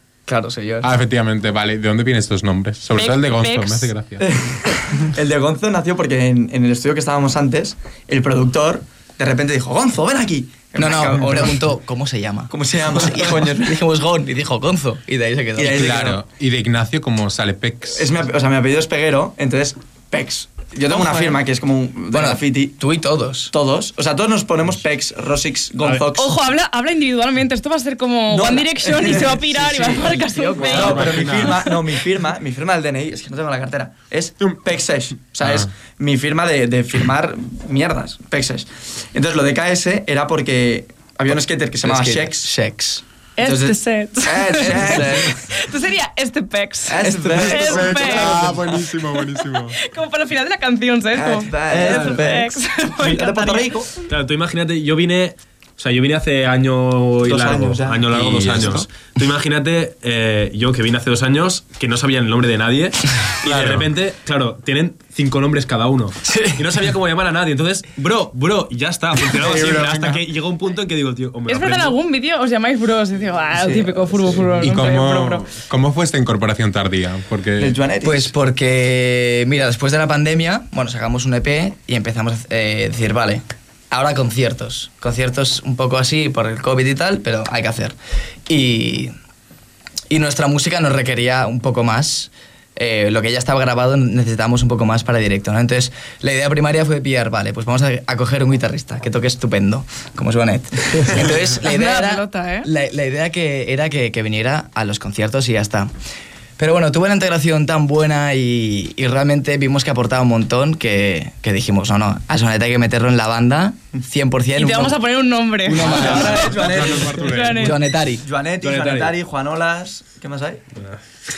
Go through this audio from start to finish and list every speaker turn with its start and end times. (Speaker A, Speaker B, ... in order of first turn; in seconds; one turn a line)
Speaker A: 0.3-0.9
Speaker B: 0.8-4.3
Speaker C: 2.9-3.9
Speaker D: 4.2-11.6
Speaker A: 10.8-15.9
Speaker D: 12.5-13.8
Speaker D: 15.6-16.2
Speaker B: 15.7-18.1
Speaker D: 17.9-22.7
Speaker C: 20.9-21.3
Speaker A: 22.1-23.5
Speaker D: 23.5-26.4
Speaker C: 26.1-31.8
Speaker D: 28.3-30.1
Speaker A: 29.7-31.3
Speaker D: 30.6-42.5
Speaker B: 30.7-31.6
Speaker A: 41.8-43.0
Speaker C: 43.4-53.7
Speaker D: 43.4-45.4
Speaker A: 44.6-45.4
Speaker D: 46.9-48.6
Speaker B: 47.4-49.8
Speaker D: 51.1-53.9
Speaker E: 51.7-52.2
Speaker E: 54.0-72.0
Speaker D: 57.2-58.2
Speaker B: 58.1-58.8
Speaker B: 63.4-63.9
Speaker A: 66.2-66.6
Speaker B: 69.3-70.2
Speaker C: 71.5-75.5
Speaker D: 73.5-74.6
Speaker B: 74.6-77.7
Speaker D: 77.6-78.3
Speaker A: 78.0-88.0
Speaker A: 88.5-89.1
Speaker A: 90.1-105.9
Speaker C: 101.6-102.7
Speaker A: 106.6-115.0
Speaker C: 114.5-117.8
Speaker A: 115.6-116.6
Speaker B: 115.8-117.8
Speaker D: 115.8-117.5
Speaker A: 117.6-118.2
Speaker D: 118.2-120.6
Speaker E: 118.6-119.2